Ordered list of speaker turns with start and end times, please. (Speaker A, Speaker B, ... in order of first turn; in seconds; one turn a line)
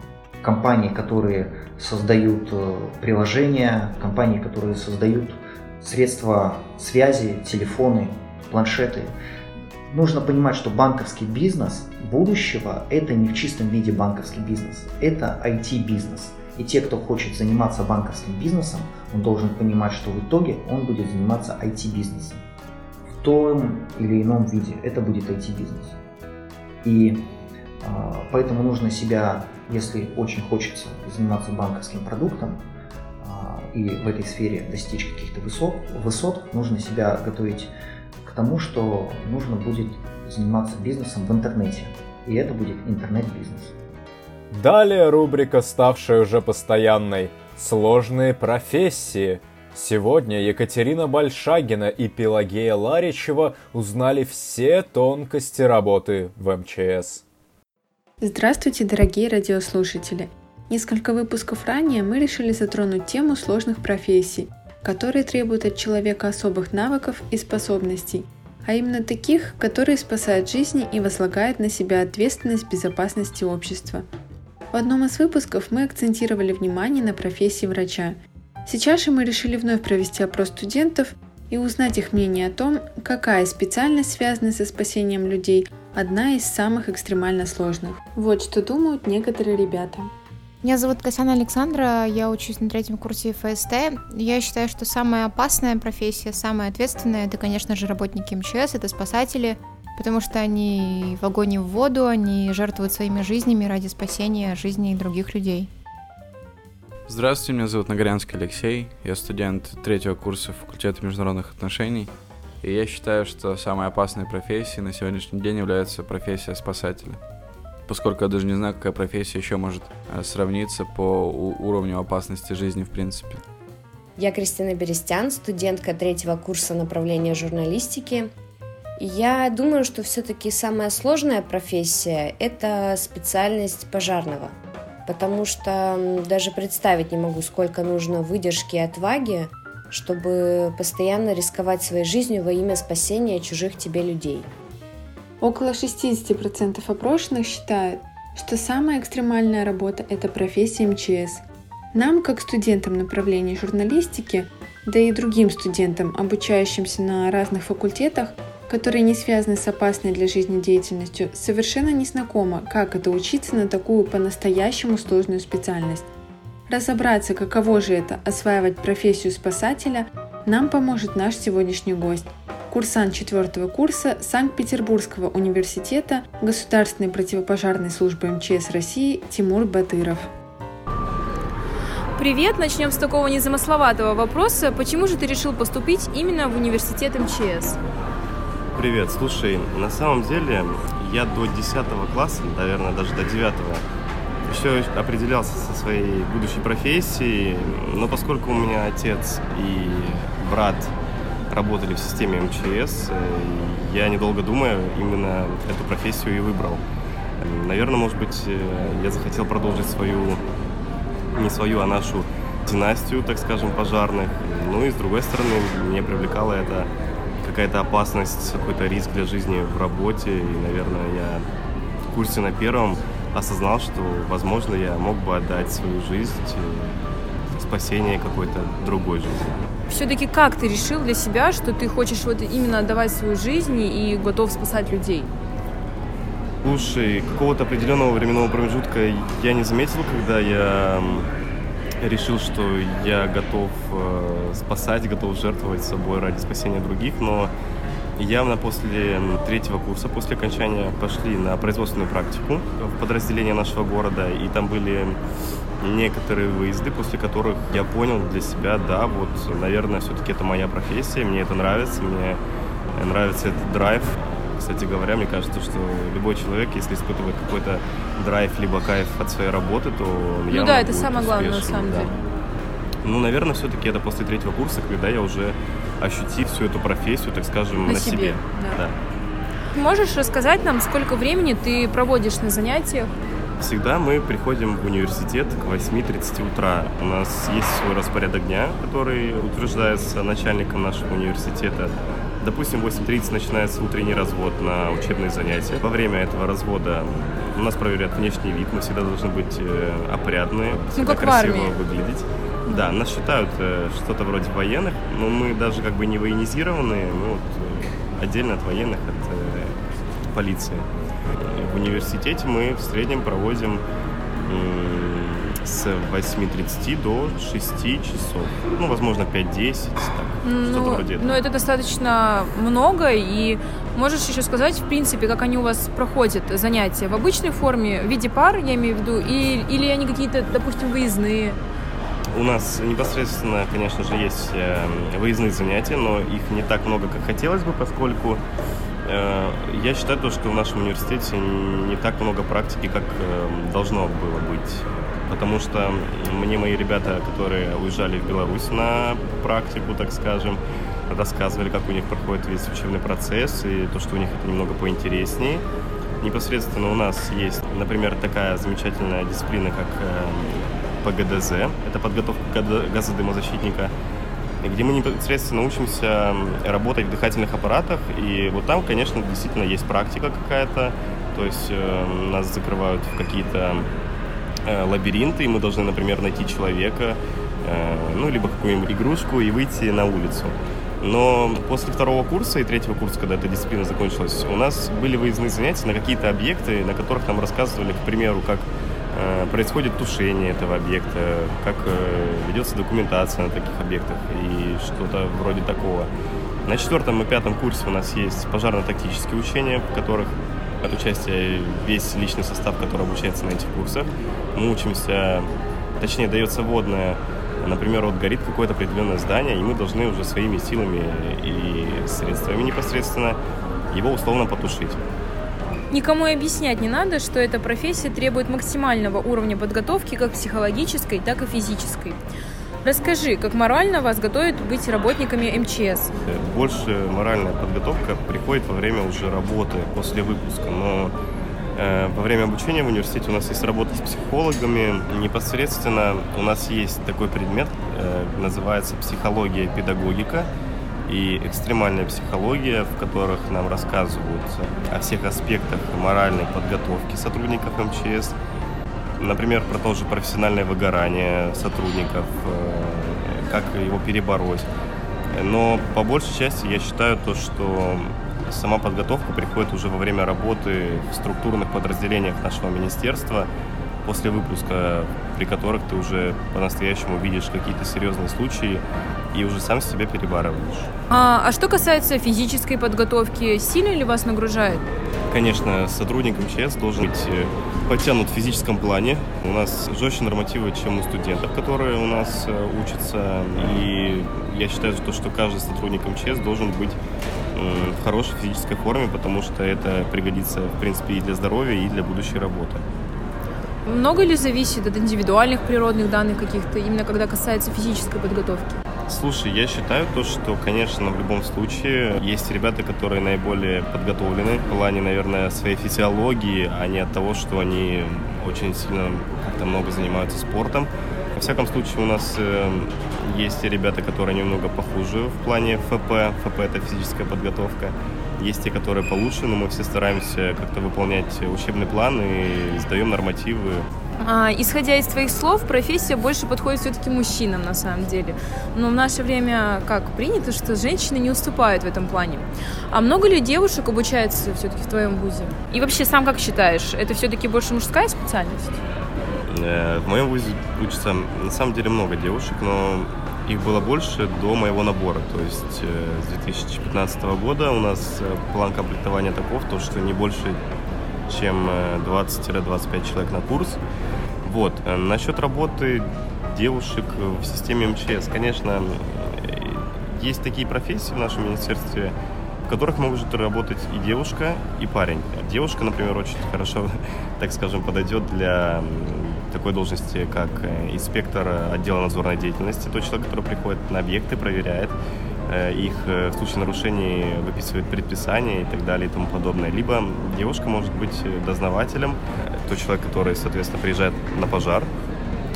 Speaker A: 0.4-9.1
Speaker A: 9.9-22.4
Speaker A: 23.1-26.0
Speaker A: 26.8-27.2
Speaker A: 27.8-32.6
Speaker A: 33.2-37.7
Speaker A: 38.2-43.8
Speaker B: 44.5-57.2
Speaker C: 58.2-74.1
Speaker C: 74.7-90.1
Speaker D: 90.6-105.7
Speaker E: 107.1-117.2
Speaker E: 117.9-123.5
Speaker F: 124.2-128.3
Speaker F: 129.0-134.5
Speaker F: 135.1-144.5
Speaker C: 145.4-151.4
Speaker C: 151.9-166.1
Speaker C: 166.7-180.3
Speaker G: 182.2-187.8
Speaker H: 188.8-193.8
Speaker H: 194.5-200.9
Speaker H: 201.5-206.8
Speaker H: 207.4-210.4
Speaker H: 211.3-216.9
Speaker H: 217.4-221.4
Speaker H: 222.1-226.9
Speaker H: 227.5-229.7
Speaker G: 229.9-235.3
Speaker H: 236.6-241.3
Speaker H: 242.0-247.5
Speaker H: 248.2-255.2
Speaker H: 255.8-262.4
Speaker H: 262.9-272.1
Speaker G: 270.5-272.2
Speaker H: 273.0-278.9
Speaker G: 277.8-278.8
Speaker G: 279.7-283.1
Speaker H: 283.6-309.8
Speaker G: 301.0-301.8
Speaker H: 310.3-313.8
Speaker H: 314.5-321.4
Speaker G: 320.4-331.6
Speaker H: 332.3-338.4
Speaker H: 339.1-355.6
Speaker H: 356.2-363.9
Speaker H: 364.6-373.9
Speaker H: 374.6-396.1
Speaker H: 396.6-405.5
Speaker H: 406.0-413.4
Speaker H: 413.9-415.0
Speaker G: 415.9-422.2
Speaker G: 422.8-426.1
Speaker H: 426.3-431.1
Speaker H: 431.8-440.5
Speaker H: 441.1-448.4
Speaker H: 449.2-454.7
Speaker H: 455.3-463.5
Speaker H: 464.1-470.9
Speaker G: 471.1-474.8
Speaker H: 475.3-487.0
Speaker H: 487.6-492.8
Speaker G: 493.9-498.8
Speaker H: 499.1-523.9
Speaker G: 524.2-538.8
Speaker H: 539.5-550.6
Speaker H: 551.3-553.8
Speaker H: 554.4-575.0
Speaker H: 575.5-584.9